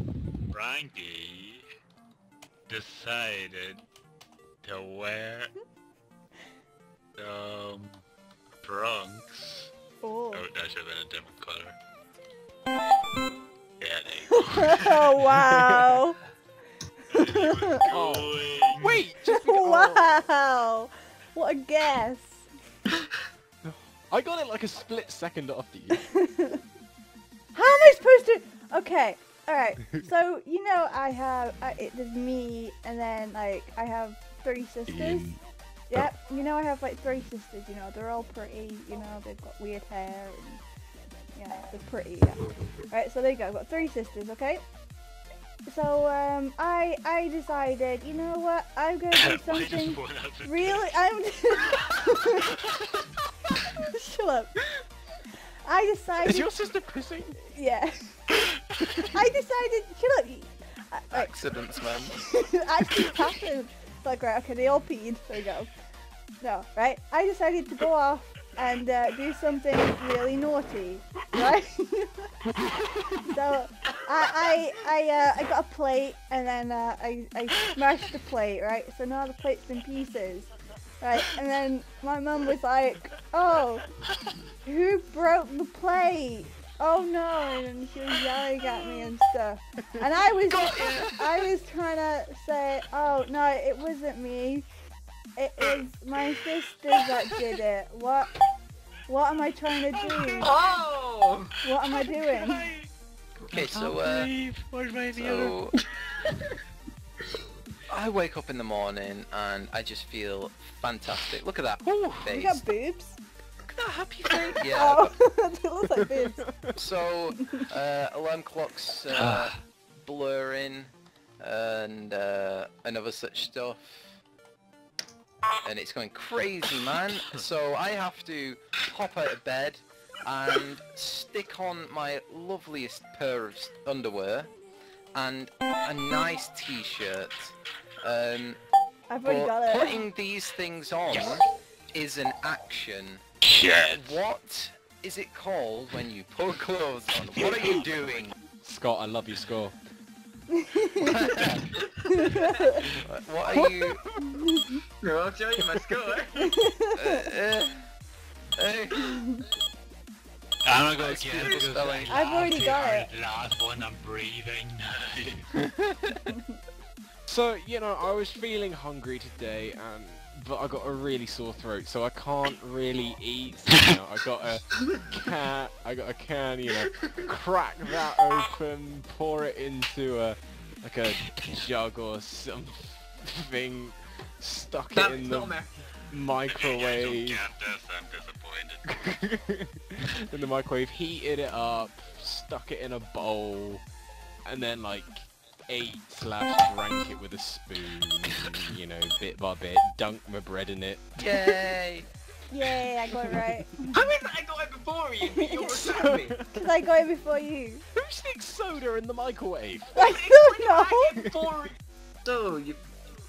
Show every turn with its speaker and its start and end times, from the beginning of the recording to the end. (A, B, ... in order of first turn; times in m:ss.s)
0:00.5-0:01.6 A
0:02.7-0:03.8 A
0:04.6-0:05.5 A
0:07.2-0:08.0 A
0:08.6-0:09.7 A
0:10.0-0:10.4 B
0:10.3-0:11.8 A
0:13.8-0:15.2 A
0:14.4-0:16.2 B
0:15.4-0:16.0 C
0:17.1-0:19.0 A
0:17.1-0:17.8 B
0:17.9-0:20.1 C
0:19.2-0:22.5 B
0:23.6-0:26.0 C
0:26.1-0:26.6 B
0:27.5-0:40.6 B
0:34.9-0:35.4 C
0:41.3-0:44.6 B
0:45.6-0:52.5 B
0:49.1-0:51.0 A
0:52.4-0:52.8 A
0:53.9-0:54.6 B
0:55.6-0:56.5 B
0:56.2-0:57.4 C
0:57.4-0:58.2 B
0:59.1-1:01.4 B
1:01.1-1:02.2 D
1:01.9-1:05.7 B
1:06.4-1:12.3 B
1:13.2-1:23.9 B
1:24.6-1:34.7 B
1:30.5-1:30.9 D
1:35.4-1:38.3 B
1:39.1-1:40.6 B
1:40.4-1:41.6 E
1:41.6-1:42.7 B
1:43.5-1:44.3 D
1:43.6-1:45.6 C
1:45.1-1:45.7 D
1:45.7-1:46.5 E
1:47.9-1:52.6 D
1:51.8-1:52.2 C
1:52.2-1:53.2 B
1:53.7-1:55.1 D
1:54.7-1:56.4 B
1:56.0-1:56.7 C
1:56.7-2:04.2 D
1:57.4-1:57.6 B
1:59.1-1:59.6 A
2:05.6-2:14.5 D
2:15.2-2:18.6 D
2:19.1-2:20.1 B
2:19.2-2:23.2 D
2:23.4-2:24.2 A
2:23.9-2:28.3 D
2:27.3-2:28.3 A
2:28.6-2:29.8 C
2:30.5-2:31.2 B
2:31.0-2:31.7 D
2:31.7-2:32.5 E
2:32.1-2:32.8 B
2:33.0-2:34.0 D
2:33.5-2:34.5 C
2:34.3-2:34.8 B
2:35.0-2:36.5 E
2:36.4-2:37.2 B
2:36.9-2:37.9 D
2:38.6-2:39.3 D
2:39.0-2:39.4 B
2:40.6-2:45.4 A
2:40.9-2:42.2 D
2:42.1-2:43.1 B
2:45.6-2:46.3 D
2:47.3-3:05.6 C
3:04.9-3:05.9 E
3:06.1-3:07.4 C
3:06.5-3:08.8 A
3:08.9-3:13.8 C
3:14.5-3:21.6 C
3:21.2-3:22.1 D
3:22.5-3:24.0 B
3:23.2-3:23.6 C
3:23.9-3:26.4 E
3:25.3-3:25.9 B
3:25.8-3:26.7 C
3:26.5-3:27.8 B
3:28.0-3:30.0 C
3:30.0-3:31.2 B
3:30.0-3:32.8 E
3:31.2-3:31.5 C